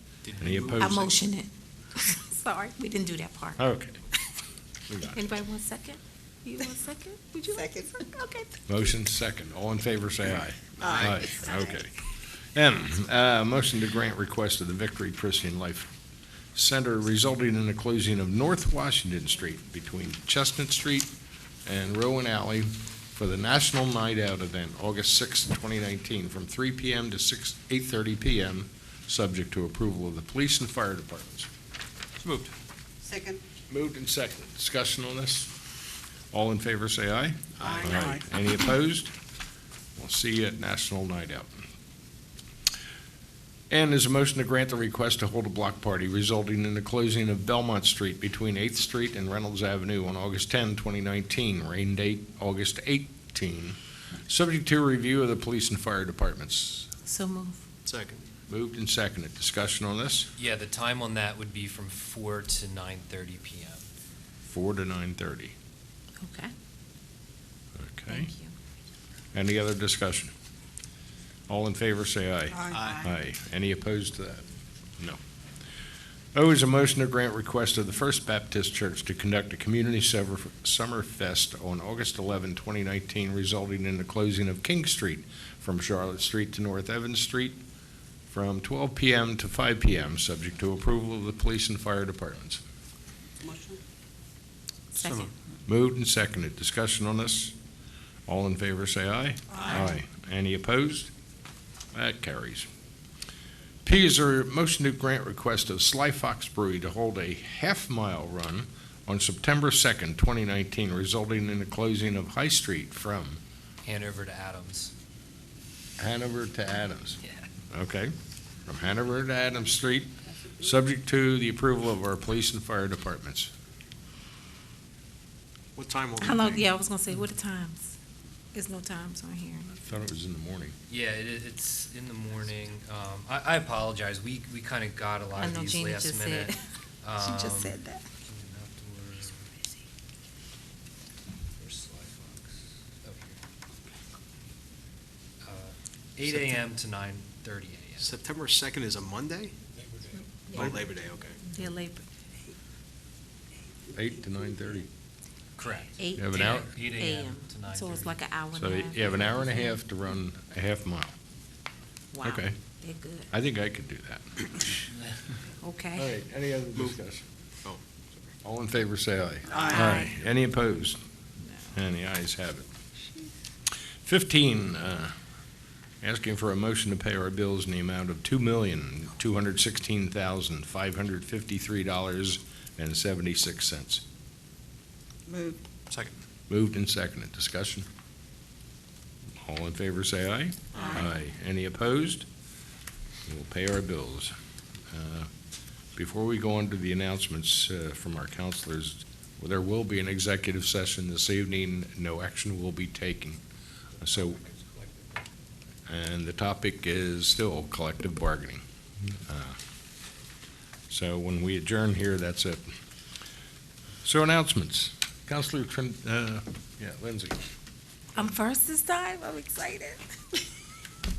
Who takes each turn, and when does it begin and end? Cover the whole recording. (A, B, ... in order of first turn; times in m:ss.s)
0:00.2-0:01.1 A
0:00.4-0:01.0 B
0:00.8-0:03.6 C
0:03.6-0:04.0 B
0:04.9-0:05.2 B
0:05.1-0:08.5 C
0:08.7-0:11.9 B
0:10.8-0:11.1 A
0:10.8-0:11.5 D
0:12.5-0:15.9 B
0:16.5-0:21.1 B
0:21.6-0:31.5 B
0:32.2-0:32.5 E
0:33.0-0:33.4 D
0:33.7-0:35.5 B
0:36.3-0:39.1 B
0:37.6-0:38.2 D
0:40.0-0:41.6 B
0:43.7-0:56.9 B
0:57.0-0:57.6 C
0:57.8-0:58.2 A
0:58.5-1:00.3 B
1:00.4-1:03.8 E
1:04.5-1:05.5 B
1:06.2-1:06.5 C
1:07.8-1:08.3 B
1:08.1-1:08.5 C
1:09.3-1:10.3 B
1:11.5-1:14.4 B
1:12.6-1:13.0 D
1:12.7-1:13.1 A
1:16.3-1:27.6 B
1:28.3-1:32.6 B
1:33.4-1:33.8 D
1:34.9-1:35.3 C
1:35.7-1:37.5 B
1:38.3-1:41.1 B
1:41.9-1:42.7 B
1:43.8-1:53.4 B
1:53.8-1:54.9 E
1:56.0-1:57.2 B
1:57.2-1:57.5 E
1:57.7-1:58.1 B
1:58.6-2:03.5 B
2:05.7-2:06.7 A
2:06.2-2:08.0 C
2:08.5-2:09.8 C
2:09.8-2:10.7 B
2:10.9-2:16.5 E
2:15.4-2:16.6 C
2:17.0-2:19.5 E
2:17.2-2:18.0 C
2:21.6-2:23.4 E
2:25.4-2:28.1 E
2:26.2-2:26.6 A
2:28.0-2:29.6 A
2:30.5-2:31.4 A
2:31.4-2:32.0 C
2:33.9-2:34.9 B
2:35.6-2:38.2 E
2:36.0-2:39.8 C
2:36.1-2:36.7 B
2:38.5-2:41.1 B
2:42.1-2:43.3 C
2:42.2-2:42.5 B
2:43.3-2:44.7 B
2:45.6-2:46.1 C
2:46.0-2:47.2 B
2:48.4-2:51.0 B
2:49.5-2:49.9 A
2:49.7-2:50.1 C
2:51.7-2:52.6 B
2:54.0-2:55.1 B
2:56.0-3:04.0 B
3:05.3-3:05.6 D
3:05.9-3:06.2 A
3:06.5-3:07.9 B
3:09.4-3:12.3 B
3:13.3-3:14.3 B
3:14.9-3:15.3 B
3:15.9-3:23.4 B
3:24.0-3:24.4 B
3:25.9-3:28.6 B
3:29.2-3:29.6 B
3:30.9-3:32.7 B
3:34.0-3:37.4 B
3:38.1-3:40.4 C